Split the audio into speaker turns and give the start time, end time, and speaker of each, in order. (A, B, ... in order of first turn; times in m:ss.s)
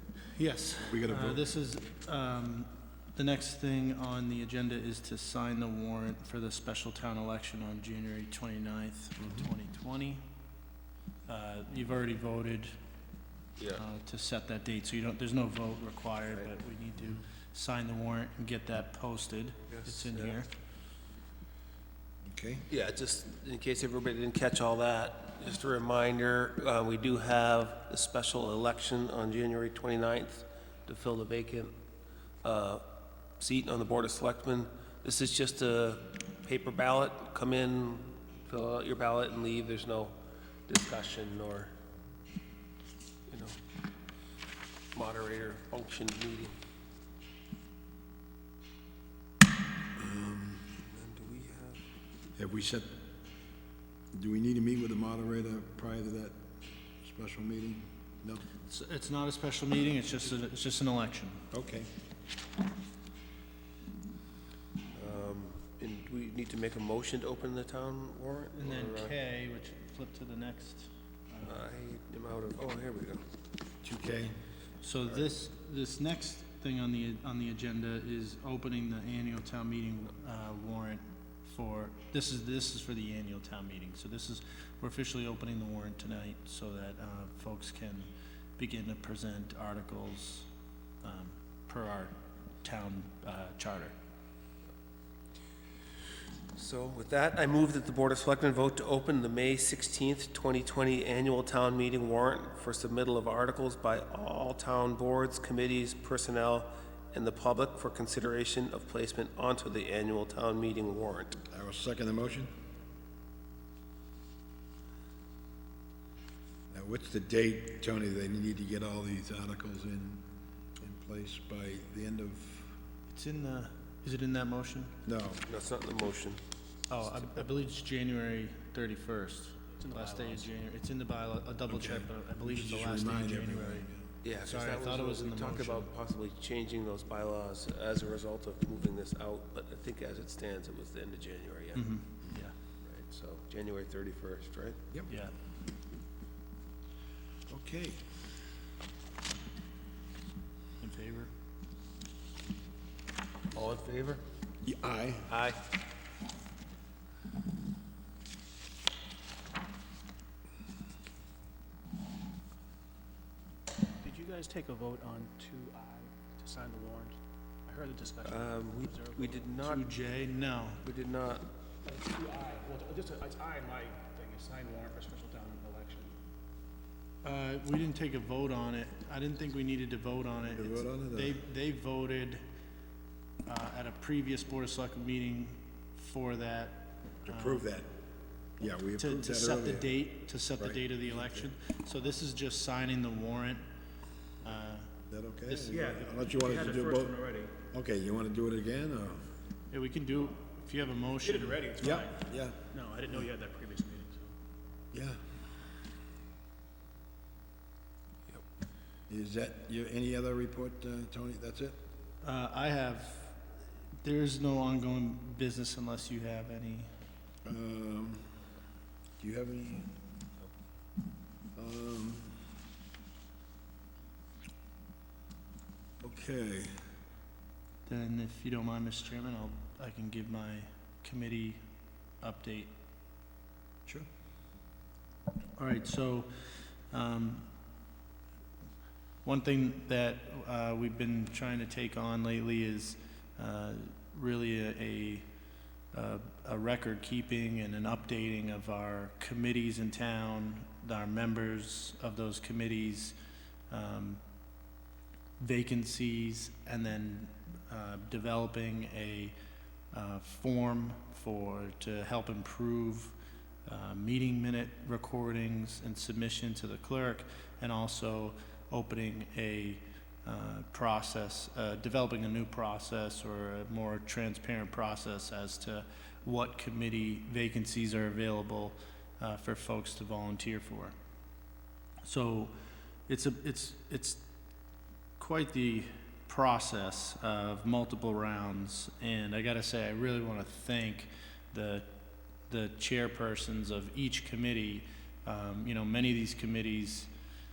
0:00.3-0:10.2 A
0:00.8-0:01.5 B
0:09.2-0:09.5 B
0:11.3-0:12.7 A
0:13.6-0:13.8 C
0:13.8-0:20.5 A
0:19.7-0:20.4 C
0:22.2-0:22.7 B
0:22.7-0:31.7 C
0:32.4-0:32.9 C
0:33.4-0:40.2 C
0:40.7-0:41.7 C
0:43.3-0:43.6 C
0:44.9-0:46.5 C
0:50.0-0:50.8 B
0:50.8-0:51.8 C
0:52.4-0:53.0 B
0:54.1-0:58.4 B
0:58.7-1:01.4 A
1:01.5-1:01.9 B
1:04.9-1:09.2 C
1:08.5-1:11.6 A
1:11.4-1:13.2 C
1:13.8-1:14.4 B
1:14.8-1:30.5 A
1:31.0-1:34.0 A
1:36.5-1:51.4 C
1:51.5-1:52.5 B
1:56.7-2:00.2 B
2:00.8-2:02.8 B
2:03.1-2:05.0 A
2:05.1-2:05.4 B
2:05.5-2:06.4 C
2:06.9-2:15.9 A
2:09.8-2:10.5 D
2:11.7-2:14.1 B
2:14.2-2:21.8 C
2:21.8-2:22.6 A
2:22.8-2:24.9 C
2:27.5-2:28.0 B
2:30.8-2:31.3 A
2:33.5-2:34.2 C
2:34.6-2:35.4 B
2:35.3-2:35.6 C
2:44.0-2:49.5 D
2:48.2-2:49.9 C
2:49.6-2:50.8 A
2:50.8-2:51.5 C
2:51.8-2:56.2 D
2:57.2-3:02.4 A
3:00.5-3:01.4 B
3:03.4-3:07.7 A
3:07.2-3:07.9 B
3:08.6-3:10.0 B
3:09.0-3:13.6 A
3:10.6-3:11.5 B
3:14.4-3:14.9 A
3:15.1-3:19.3 B
3:15.5-3:17.5 D
3:19.7-3:21.9 A
3:21.2-3:22.1 D
3:21.8-3:22.6 B
3:22.7-3:24.3 D
3:24.9-3:25.2 B
3:29.1-3:31.8 B
3:32.2-3:33.4 A
3:34.0-3:36.9 A
3:37.4-3:38.3 B
3:39.2-3:39.9 B
3:41.6-3:42.5 B
3:46.0-3:46.7 B
3:47.9-3:51.6 A
3:52.2-3:52.7 A
3:55.6-3:56.3 A
3:56.9-3:57.5 A
3:59.2-4:05.2 A
4:05.9-4:13.2 A
4:13.7-4:14.2 A
4:15.4-4:19.3 A
4:19.9-4:23.1 A
4:23.7-4:40.9 A
4:42.0-4:42.5 A
4:43.1-4:44.2 A
4:45.2-4:51.9 A
4:52.5-4:57.1 A